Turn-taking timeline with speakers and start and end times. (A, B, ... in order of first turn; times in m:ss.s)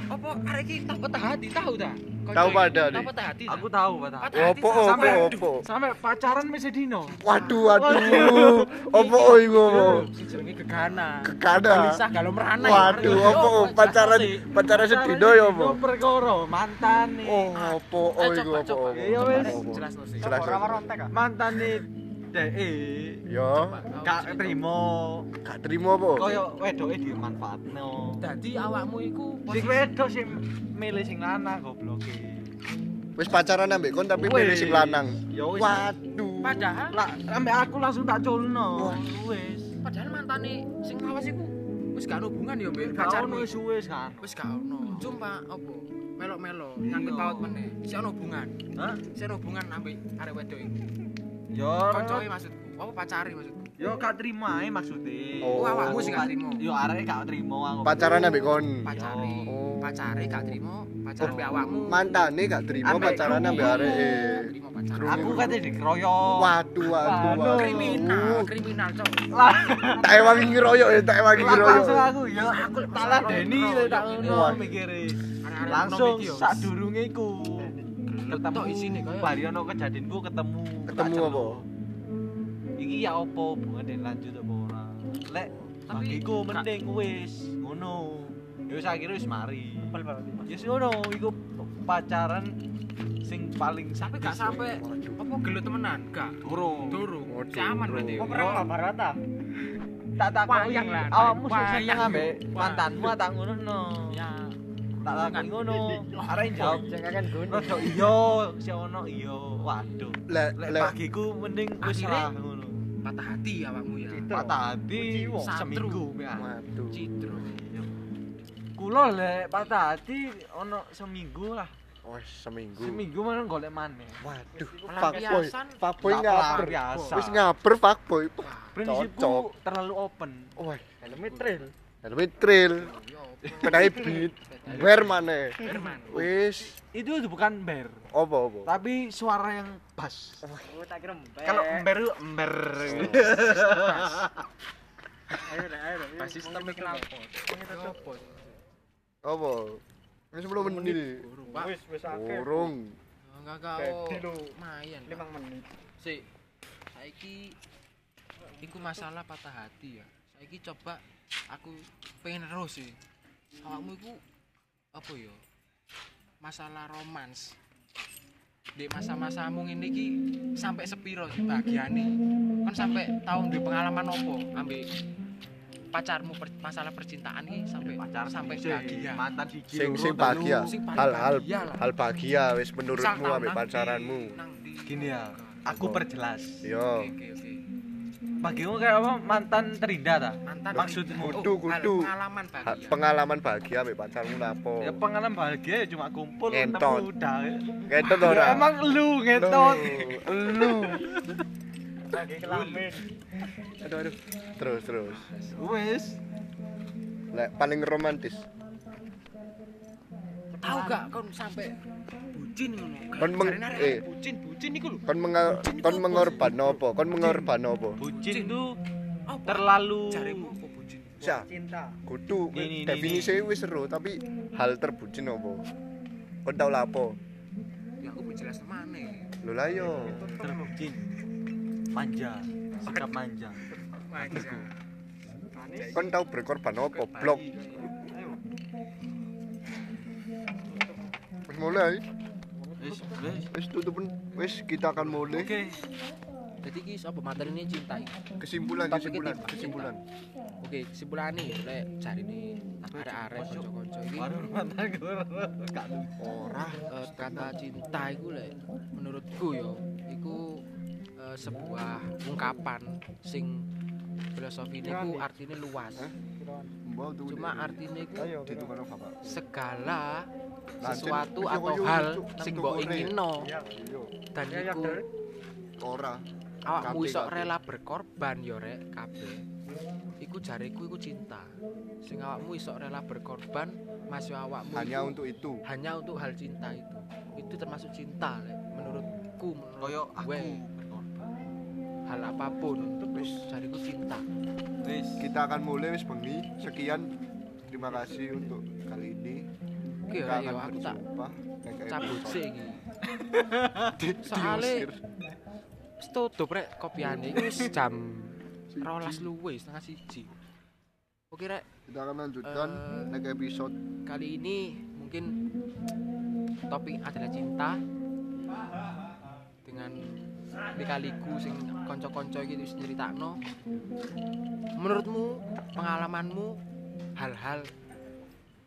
0:00.1-0:03.7 A
0:02.3-0:03.1 B
0:03.5-0:08.7 C
0:04.2-0:05.5 A
0:04.3-0:05.6 B
0:07.2-0:10.1 B
0:07.3-0:14.5 A
0:09.7-0:10.1 C
0:11.2-0:12.0 B
0:12.6-0:15.8 B
0:12.8-0:13.5 C
0:14.7-0:17.6 C
0:17.2-0:21.0 B
0:17.5-0:20.4 A
0:18.9-0:19.6 C
0:20.2-0:21.2 D
0:21.1-0:23.2 C
0:23.3-0:23.8 B
0:23.5-0:24.6 A
0:24.0-0:25.3 C
0:25.4-0:26.4 B
0:26.2-0:28.2 C
0:28.2-0:29.9 A
0:29.5-0:32.5 C
0:33.2-0:36.7 B
0:34.1-0:36.0 C
0:36.4-0:37.0 A
0:36.9-0:39.8 C
0:39.8-0:43.6 A
0:42.7-0:44.3 C
0:44.2-0:48.6 A
0:46.8-0:47.6 C
0:48.8-0:49.0 C
0:49.1-0:50.9 A
0:51.5-0:52.3 C
0:51.9-0:53.7 A
0:53.8-0:59.6 C
0:55.4-0:56.3 B
0:55.5-0:56.7 A
0:57.8-0:58.9 B
0:58.7-1:02.1 A
0:59.5-1:00.5 B
1:01.2-1:05.6 B
1:01.2-1:01.9 C
1:02.8-1:04.2 C
1:02.9-1:05.5 A
1:05.0-1:08.1 C
1:06.4-1:08.5 B
1:07.2-1:09.3 A
1:09.3-1:10.7 C
1:10.0-1:12.1 B
1:11.3-1:17.8 C
1:12.3-1:14.7 A
1:14.2-1:14.7 B
1:15.4-1:16.7 A
1:18.1-1:19.4 A
1:18.3-1:21.7 C
1:20.9-1:21.6 B
1:22.8-1:32.6 C
1:25.9-1:26.7 A
1:29.9-1:30.7 D
1:33.2-1:34.8 C
1:34.0-1:38.7 A
1:34.8-1:35.2 B
1:36.4-1:37.0 C
1:37.3-1:38.4 B
1:38.2-1:39.2 D
1:38.2-1:38.7 C
1:40.2-1:44.2 C
1:40.4-1:43.2 A
1:44.0-1:46.9 A
1:45.0-1:52.9 C
1:46.6-1:48.2 D
1:50.3-1:50.9 B
1:51.8-1:52.4 A
1:53.0-1:54.3 A
1:54.1-1:55.5 D
1:54.3-1:56.5 C
1:55.4-1:56.1 A
1:56.4-1:57.1 B
1:56.9-1:57.5 A
1:57.2-1:57.9 C
1:58.8-2:01.7 C
1:59.3-1:59.9 A
2:02.0-2:03.0 B
2:02.8-2:04.2 C
2:04.2-2:09.5 B
2:04.6-2:05.5 D
2:04.9-2:07.2 A
2:06.0-2:07.5 C
2:08.4-2:08.8 A
2:08.8-2:10.5 C
2:10.6-2:10.8 B
2:11.0-2:11.7 D
2:11.1-2:11.6 A
2:12.0-2:12.9 B
2:12.6-2:16.3 A
2:13.4-2:15.2 C
2:13.6-2:16.8 B
2:16.1-2:18.1 C
2:18.1-2:18.7 B
2:18.7-2:20.4 C
2:20.4-2:20.7 B
2:20.6-2:21.9 D
2:21.4-2:24.4 C
2:22.8-2:23.4 B
2:23.2-2:24.3 A
2:25.4-2:28.0 D
2:26.2-2:28.5 A
2:29.2-2:29.8 B
2:30.3-2:31.2 B
2:30.6-2:31.7 A
2:31.5-2:32.7 D
2:32.0-2:33.0 B
2:33.2-2:35.3 A
2:33.8-2:34.5 D
2:35.1-2:35.8 D
2:36.0-2:36.3 A
2:36.9-2:37.6 A
2:38.6-2:43.0 A
2:43.6-2:44.2 A
2:44.9-2:45.4 A
2:46.4-2:47.6 A
2:48.8-2:54.9 A
2:55.9-2:59.2 A
2:57.8-3:00.8 C
2:59.7-3:04.4 B
3:00.2-3:01.9 A
3:02.9-3:05.6 A
3:04.9-3:06.6 C
3:05.7-3:06.0 B
3:06.6-3:07.1 B
3:06.8-3:07.6 A
3:08.4-3:11.5 C
3:10.4-3:13.0 A
3:10.7-3:12.1 B
3:12.6-3:15.0 B
3:14.8-3:21.4 C
3:16.5-3:17.1 B
3:17.9-3:18.7 B
3:19.3-3:21.1 B
3:22.1-3:23.1 D
3:22.1-3:23.0 C
3:23.8-3:25.3 B
3:25.2-3:25.5 A
3:25.5-3:26.2 C
3:27.3-3:28.4 B
3:30.5-3:31.1 D
3:30.6-3:31.8 A
3:32.3-3:37.5 A
3:33.2-3:34.1 B
3:35.1-3:38.0 B
3:38.0-3:38.8 C
3:38.1-3:38.5 A
3:39.3-3:41.4 A
3:39.4-3:40.5 C
3:41.2-3:41.5 B
3:41.2-3:42.0 D
3:42.0-3:45.7 B
3:42.5-3:43.5 C
3:46.4-3:47.2 B
3:48.0-3:49.3 A
3:49.4-3:50.2 B
3:49.7-3:50.7 D
3:49.9-3:51.1 C
3:51.9-3:54.7 C
3:53.9-3:54.7 A
3:55.5-3:56.1 D
3:55.8-3:56.1 A
3:55.9-3:57.5 B
3:56.9-3:57.9 A
4:00.7-4:01.0 D
4:01.5-4:02.0 B
4:02.6-4:03.2 D
4:02.8-4:03.5 C
4:03.5-4:05.5 B
4:05.2-4:05.8 C
4:06.6-4:08.2 A
4:08.4-4:10.0 B
4:08.9-4:09.9 A
4:10.6-4:14.3 A
4:12.8-4:16.1 C
4:16.2-4:17.6 B
4:16.9-4:20.6 A
4:21.2-4:23.7 A
4:24.3-4:26.1 A
4:24.8-4:25.3 D
4:26.2-4:26.7 D
4:26.8-4:29.4 B
4:27.3-4:28.3 A
4:28.2-4:28.7 D
4:29.2-4:30.3 A
4:30.8-4:33.5 A
4:30.8-4:34.1 B
4:33.4-4:33.7 D
4:34.3-4:35.0 A
4:34.5-4:35.1 D
4:35.8-4:36.2 B
4:36.7-4:39.4 A
4:36.7-4:37.5 B
4:40.2-4:50.6 A
4:44.7-4:45.6 B
4:48.8-4:49.1 B
4:49.8-4:51.2 C
4:52.1-4:54.2 A
4:53.0-4:53.4 B
4:54.8-4:55.3 C
4:55.2-4:57.1 B
4:57.7-4:59.4 B
5:00.1-5:01.0 A
5:00.2-5:02.4 B
5:01.9-5:02.8 A
5:03.2-5:03.9 C
5:04.0-5:05.0 B
5:04.0-5:04.9 A
5:06.0-5:10.3 A
5:08.7-5:09.3 B
5:11.3-5:11.6 A
5:11.9-5:13.7 B
5:12.4-5:13.1 A
5:14.1-5:15.3 A
5:16.7-5:17.8 A
5:19.6-5:20.2 A
5:20.7-5:23.4 A
5:24.8-5:26.6 A
5:27.2-5:27.7 A